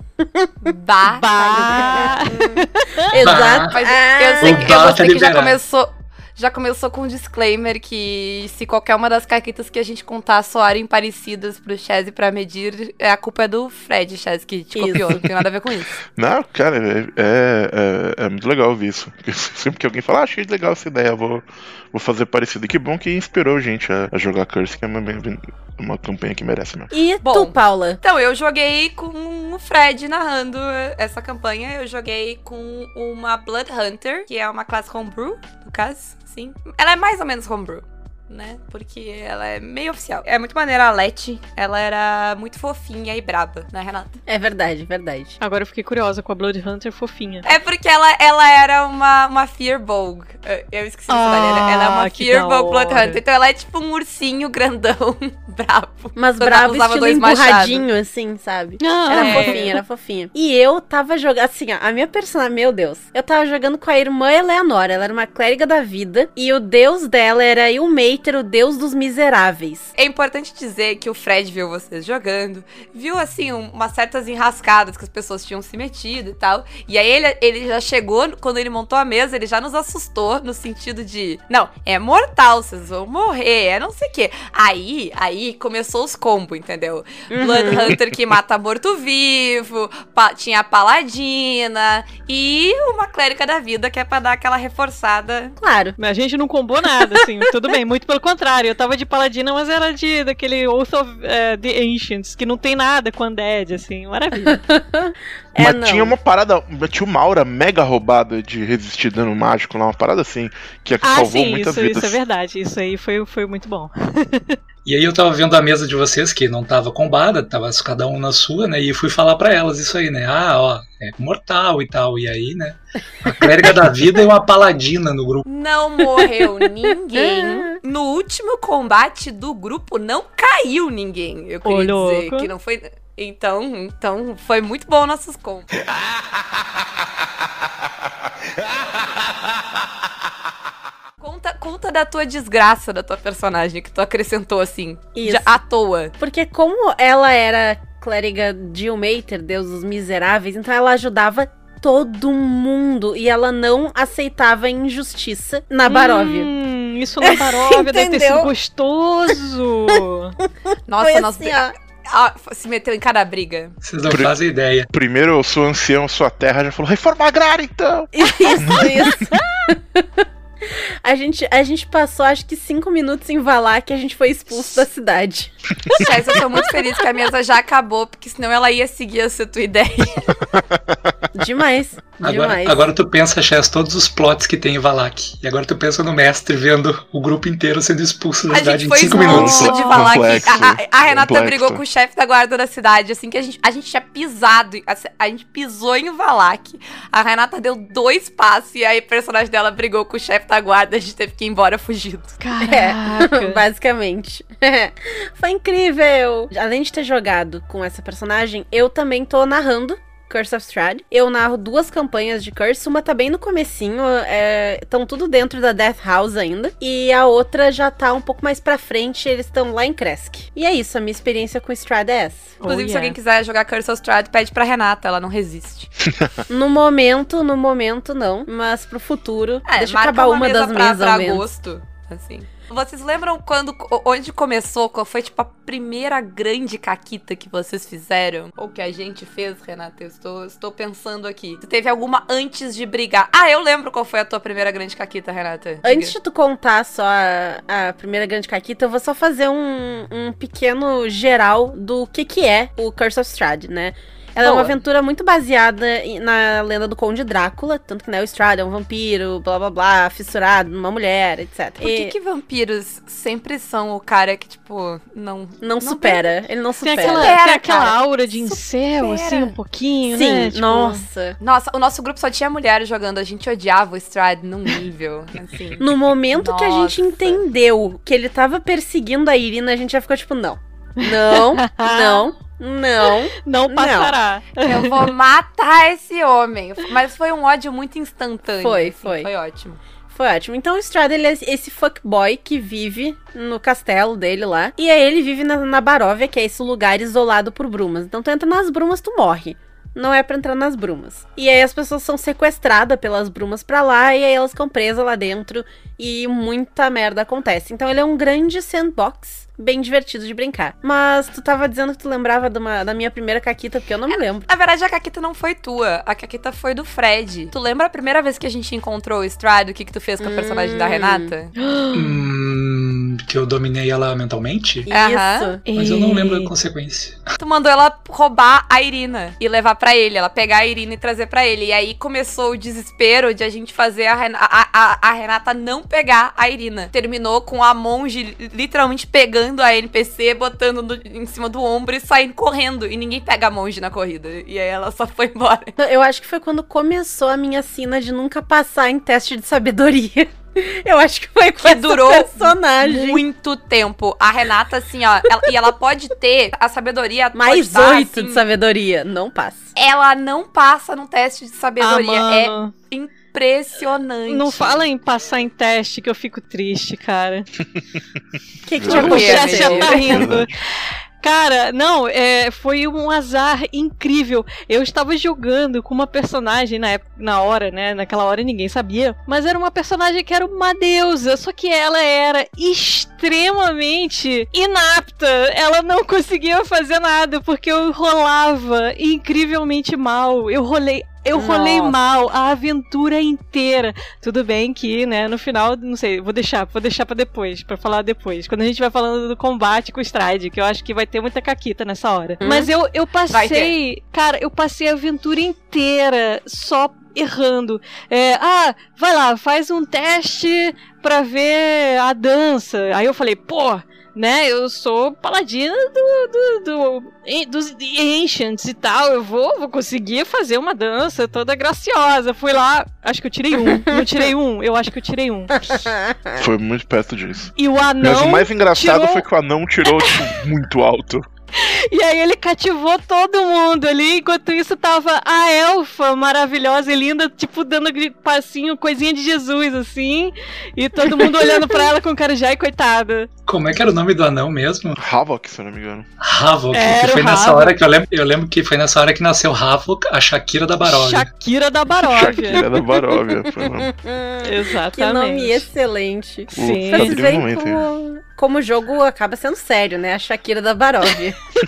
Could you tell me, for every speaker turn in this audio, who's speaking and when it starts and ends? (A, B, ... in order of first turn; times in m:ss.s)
0:00.2-0:00.5 A
0:00.6-0:02.4 B
0:01.0-0:03.2 C
0:01.6-0:04.8 A
0:03.2-0:03.8 D
0:03.7-0:16.0 B
0:04.4-0:05.6 D
0:14.7-0:15.2 A
0:16.2-0:26.9 E
0:26.9-0:28.0 A
0:27.2-0:44.2 B
0:44.3-0:45.4 A
0:45.4-0:47.5 C
0:47.4-0:57.9 B
0:51.1-0:53.2 C
0:56.2-1:09.9 A
0:58.8-0:59.8 C
0:59.1-0:59.8 B
1:10.0-1:35.6 B
1:27.3-1:28.0 A
1:35.6-1:36.0 A
1:36.0-1:44.6 C
1:44.5-1:46.2 A
1:45.6-1:52.2 E
1:51.0-1:54.6 C
1:54.8-2:05.4 D
2:05.5-2:15.8 B
2:06.2-2:06.4 A
2:07.2-2:07.7 A
2:11.6-2:12.5 C
2:21.2-2:26.1 B
2:25.2-2:25.6 A
2:26.2-2:36.5 A
2:35.9-2:40.4 C
2:37.2-2:38.5 A
2:40.9-2:43.8 B
2:41.0-2:41.7 A
2:43.8-2:44.9 D
2:44.1-2:44.3 E
2:44.9-2:49.3 E
2:48.1-2:55.5 A
2:56.0-3:00.6 B
3:00.6-3:01.0 E
3:01.3-3:02.9 A
3:02.2-3:09.7 D
3:08.5-3:22.4 B
3:09.1-3:10.3 C
3:09.3-3:11.8 E
3:22.4-3:23.6 C
3:22.6-3:42.6 A
3:42.6-3:43.2 C
3:42.6-3:45.9 B
3:46.0-3:46.4 E
3:46.5-3:51.4 A
3:49.7-4:06.2 B
4:05.8-4:22.1 A
4:14.4-4:14.8 B
4:21.8-4:26.3 B
4:25.6-4:27.3 A
4:26.8-4:31.0 C
4:26.9-4:29.5 B
4:30.1-4:31.4 A
4:31.4-4:37.4 B
4:35.8-4:44.1 A
4:41.0-4:42.3 C
4:43.4-4:45.1 C
4:44.6-4:49.8 B
4:48.6-4:49.3 A
4:50.1-5:14.5 A
5:14.1-5:21.5 B
5:20.2-5:21.3 A
5:21.6-5:22.2 C
5:21.9-5:24.9 D
5:24.9-5:25.6 A
5:24.9-5:25.6 B
5:25.7-5:26.5 C
5:25.8-5:27.2 D
5:27.4-5:45.8 B
5:45.8-5:53.2 A
5:51.6-5:58.4 B
5:57.4-5:59.6 A
5:59.8-6:04.8 B
6:01.8-6:02.7 C
6:04.3-6:07.5 C
6:08.7-6:10.3 A
6:08.7-6:09.4 E
6:08.8-6:10.5 C
6:08.9-6:10.3 B
6:10.0-6:10.5 E
6:11.2-7:05.5 C
6:31.4-6:32.0 A
6:42.4-6:42.7 A
6:43.3-6:43.7 B
7:03.7-7:04.0 A
7:05.6-7:06.4 A
7:06.4-7:11.2 E
7:07.6-7:09.2 C
7:09.9-7:10.2 C
7:11.6-7:23.3 C
7:23.5-7:25.0 D
7:25.0-7:26.1 E
7:26.2-7:31.3 D
7:26.7-7:27.7 C
7:30.8-7:32.6 C
7:32.0-7:33.9 E
7:33.8-7:41.4 A
7:34.4-7:35.7 C
7:36.5-7:37.2 C
7:36.5-7:37.8 E